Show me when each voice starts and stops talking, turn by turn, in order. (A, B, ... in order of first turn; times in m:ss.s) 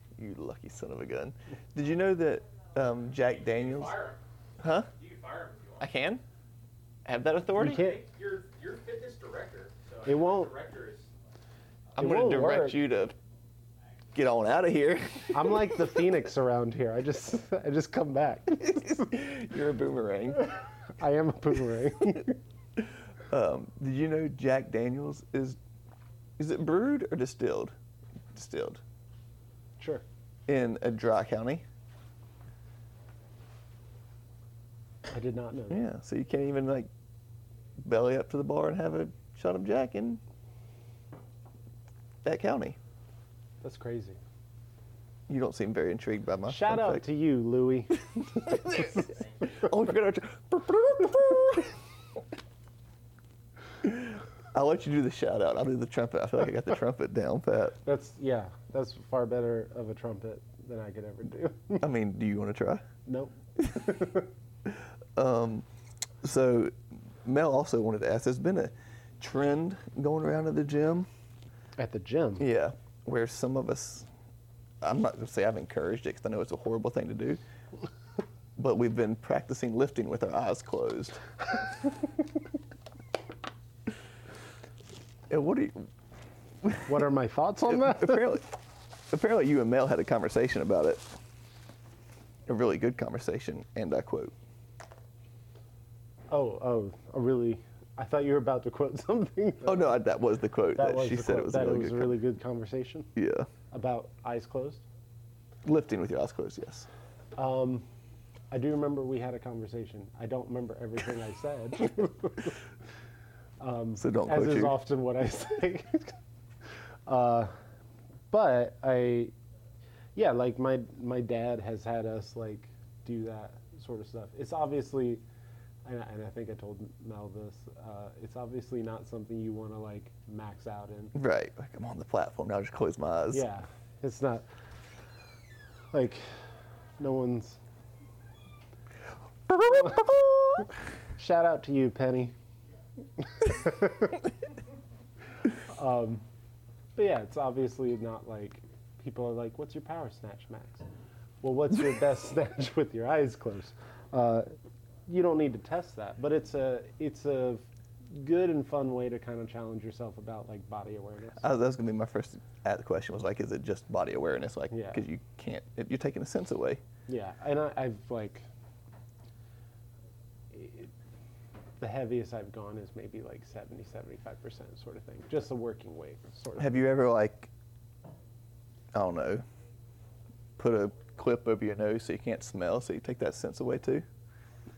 0:00.2-0:04.0 A
0:03.2-0:04.2 B
0:04.6-0:04.9 A
0:04.9-0:05.9 B
0:05.8-0:06.2 A
0:07.0-0:07.9 A
0:07.6-0:08.0 C
0:07.6-0:11.1 B
0:10.0-0:10.5 C
0:12.0-0:13.2 A
0:12.0-0:12.8 C
0:14.1-0:15.9 A
0:15.3-0:19.0 C
0:18.6-0:20.6 A
0:21.0-0:22.4 C
0:23.3-0:25.6 A
0:26.4-0:27.7 A
0:28.3-0:28.8 A
0:29.8-0:30.0 C
0:30.5-0:31.6 A
0:35.1-0:35.8 C
0:35.7-0:36.9 A
0:37.8-0:40.2 A
0:42.2-0:42.8 A
0:43.6-0:44.2 C
0:45.3-0:47.0 A
0:46.5-0:48.0 C
0:48.2-0:51.8 A
0:53.8-0:57.8 A
0:57.8-1:01.9 C
1:01.8-1:02.8 A
1:03.0-1:04.2 C
1:04.7-1:05.6 A
1:06.2-1:11.1 A
1:11.8-1:12.4 C
1:12.4-1:14.1 A
1:14.8-1:17.4 A
1:18.6-1:21.2 A
1:25.3-1:25.9 A
1:26.6-1:26.9 A
1:26.8-1:28.4 C
1:27.7-1:28.5 A
1:29.1-1:31.1 A
1:32.5-1:34.3 A
1:36.3-1:39.9 C
1:39.6-1:42.2 A
1:40.8-1:43.1 C
1:43.2-1:43.5 A
1:43.7-1:44.8 C
1:45.6-1:46.9 A
1:47.4-1:47.9 C
1:48.5-1:52.6 C
1:53.6-1:56.2 C
1:54.0-1:54.8 A
1:57.0-1:57.5 C
1:58.3-1:59.3 C
2:00.1-2:05.2 C
2:05.8-2:11.1 C
2:11.1-2:13.4 A
2:13.3-2:14.4 C
2:15.9-2:16.3 C
2:17.0-2:17.6 C
2:19.6-2:20.0 C
2:21.2-2:22.3 C
2:23.2-2:24.2 C
2:25.7-2:26.2 C
2:27.0-2:30.9 C
2:31.4-2:34.5 C
2:35.1-2:41.5 C
2:41.4-2:46.8 A
2:44.7-2:45.0 C
2:47.1-2:48.4 C
2:50.5-2:50.9 C
2:51.8-2:56.8 C
2:56.6-2:57.5 A
2:58.9-2:59.4 A
3:00.6-3:04.0 A